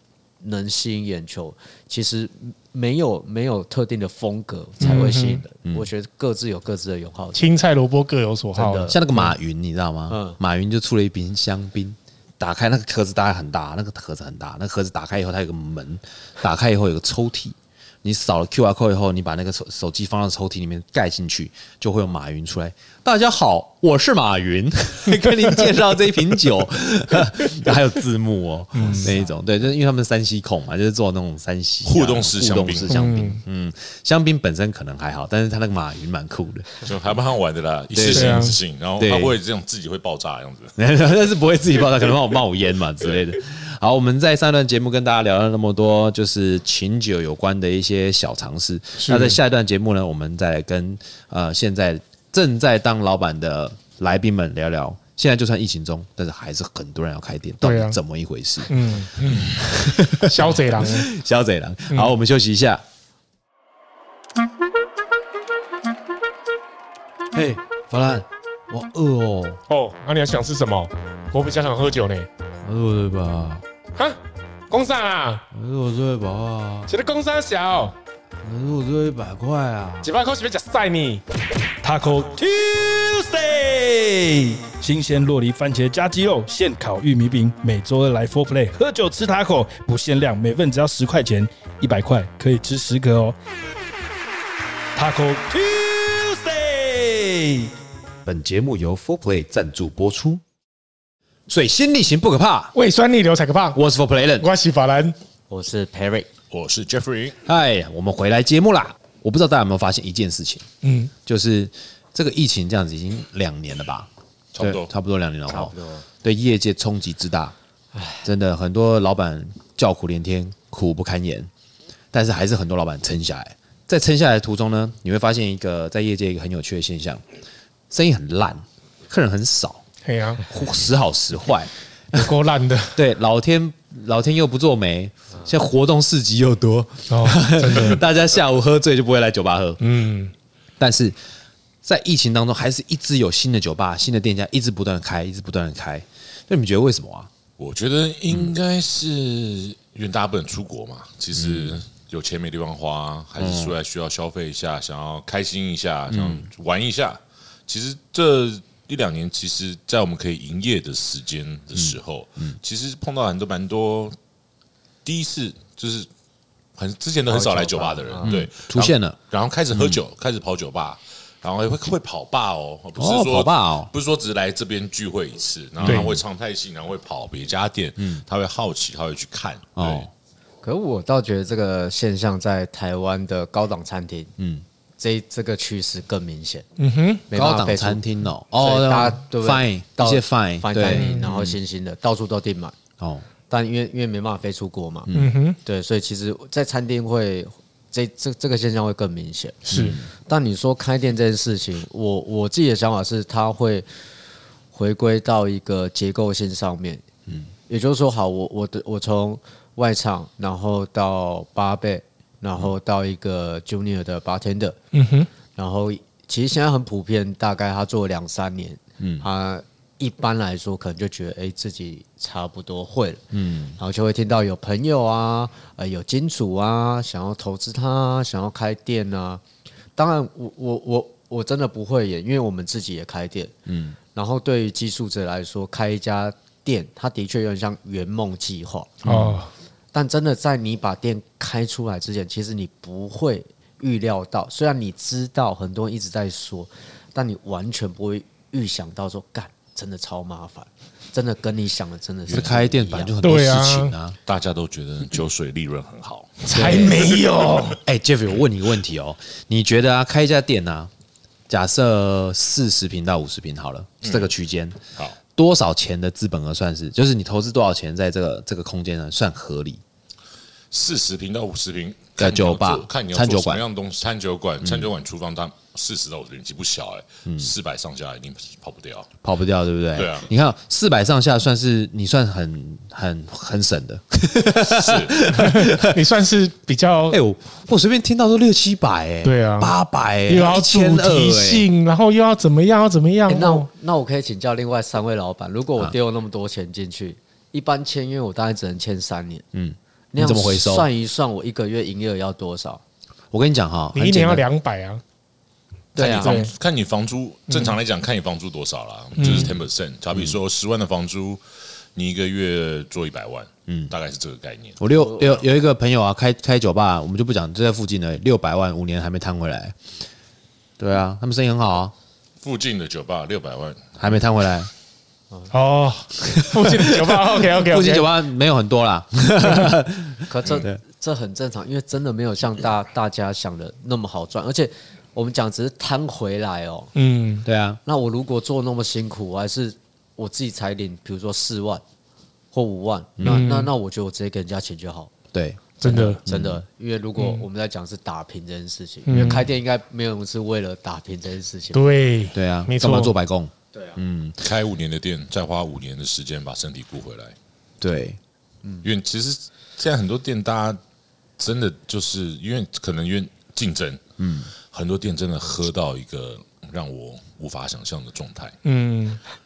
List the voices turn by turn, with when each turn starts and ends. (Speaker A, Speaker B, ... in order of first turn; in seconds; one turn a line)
Speaker A: 0.4-7.5
Speaker B: 4.8-5.4
Speaker B: 7.3-9.3
Speaker A: 8.5-9.0
Speaker C: 8.9-36.7
Speaker A: 10.1-10.4
Speaker B: 28.8-29.1
Speaker D: 31.9-33.0
Speaker B: 32.9-33.4
Speaker D: 36.8-40.7
Speaker C: 37.9-39.4
Speaker B: 38.1-38.6
Speaker C: 40.8-62.8
Speaker B: 49.0-49.4
Speaker B: 57.6-58.0
Speaker B: 58.7-61.1
Speaker C: 67.3-69.6
Speaker B: 69.7-72.3
Speaker C: 72.6-73.6
Speaker B: 74.7-75.5
Speaker C: 75.5-76.9
Speaker B: 76.9-78.0
Speaker C: 78.4-80.1
Speaker B: 80.0-81.2
Speaker E: 81.8-93.4
Speaker E: 95.0-97.7
Speaker C: 98.2-100.4
Speaker C: 101.5-102.8
Speaker B: 102.8-103.8
Speaker C: 103.7-104.5
Speaker B: 104.4-105.2
Speaker A: 105.5-106.3
Speaker D: 106.5-107.4
Speaker C: 107.5-110.7
Speaker B: 110.8-111.1
Speaker C: 111.2-114.1
Speaker D: 114.5-114.9
Speaker C: 114.6-117.5
Speaker A: 115.5-116.1
Speaker A: 118.0-118.2
Speaker C: 118.2-121.5
Speaker C: 122.1-127.2
Speaker C: 127.9-129.8
Speaker B: 130.1-130.4
Speaker C: 130.5-132.3
Speaker B: 132.1-133.0
Speaker C: 132.9-139.8
Speaker B: 137.1-138.0
Speaker B: 139.8-140.3
Speaker C: 140.8-141.2
Speaker C: 141.8-147.3
Speaker D: 147.6-164.2
Speaker C: 151.3-151.8
Speaker C: 153.4-153.8
Speaker C: 156.1-156.5
Speaker C: 161.8-162.6
Speaker D: 165.1-166.1
Speaker D: 166.8-180.1
Speaker A: 167.3-168.4
Speaker C: 168.2-169.2
Speaker C: 169.7-170.0
Speaker C: 173.0-173.9
Speaker C: 175.8-176.2
Speaker B: 175.8-176.1
Speaker C: 178.0-178.2
Speaker C: 179.8-180.1
Speaker A: 180.6-184.3
Speaker C: 184.4-184.6
Speaker A: 185.0-186.7
Speaker B: 186.8-187.3
Speaker A: 187.3-188.0
Speaker C: 187.3-191.6
Speaker A: 188.6-192.8
Speaker B: 190.9-191.3
Speaker C: 193.0-193.3
Speaker A: 193.5-195.1
Speaker C: 195.1-195.3
Speaker B: 195.1-195.6
Speaker A: 195.6-199.6
Speaker B: 199.7-200.0
Speaker C: 199.7-200.1
Speaker A: 200.3-203.9
Speaker A: 204.7-207.0
Speaker A: 207.7-214.8
Speaker B: 214.9-215.3
Speaker A: 215.6-223.2
Speaker C: 219.0-219.3
Speaker C: 223.3-223.8
Speaker A: 223.8-229.4
Speaker A: 230.0-233.5
Speaker C: 233.7-234.0
Speaker A: 234.2-239.0
Speaker C: 239.0-239.4
Speaker B: 239.1-239.5
Speaker A: 239.9-253.1
Speaker C: 252.3-254.2
Speaker B: 253.2-253.9
Speaker D: 254.3-256.6
Speaker B: 256.4-257.8
Speaker C: 256.5-257.2
Speaker C: 257.8-260.9
Speaker C: 261.5-264.8
Speaker D: 264.0-264.3
Speaker C: 265.3-269.8
Speaker D: 270.7-279.1
Speaker C: 272.2-273.6
Speaker C: 277.3-277.5
Speaker C: 279.2-286.0
Speaker D: 279.9-280.3
Speaker D: 284.6-285.2
Speaker B: 285.3-287.2
Speaker C: 287.1-291.7
Speaker B: 289.2-289.7
Speaker B: 290.3-293.7
Speaker A: 293.3-299.4
Speaker C: 299.5-300.9
Speaker A: 300.1-302.8
Speaker C: 303.3-304.5
Speaker B: 303.9-305.0
Speaker D: 305.9-311.4
Speaker A: 306.0-306.4
Speaker B: 306.2-306.5
Speaker B: 307.5-307.8
Speaker B: 309.2-309.5
Speaker C: 309.2-309.6
Speaker D: 311.9-315.4
Speaker C: 313.7-313.9
Speaker C: 314.8-319.8
Speaker A: 314.9-315.3
Speaker C: 320.8-321.9
Speaker D: 322.4-324.2
Speaker C: 324.0-324.7
Speaker B: 325.5-328.1
Speaker C: 326.2-330.8
Speaker A: 330.3-336.9
Speaker B: 336.9-337.5
Speaker C: 337.4-337.8
Speaker A: 337.9-341.8
Speaker A: 342.5-345.1
Speaker C: 343.2-343.5
Speaker B: 343.2-343.7
Speaker C: 345.3-346.6
Speaker B: 345.8-346.2
Speaker A: 345.8-351.8
Speaker B: 347.2-347.5
Speaker B: 349.1-349.4
Speaker C: 349.1-349.5
Speaker B: 351.7-353.1
Speaker C: 352.3-354.4
Speaker D: 354.4-357.4
Speaker C: 357.8-358.2
Speaker D: 358.8-360.8
Speaker D: 361.4-364.0
Speaker C: 364.2-364.5
Speaker D: 364.7-368.6
Speaker B: 368.6-369.2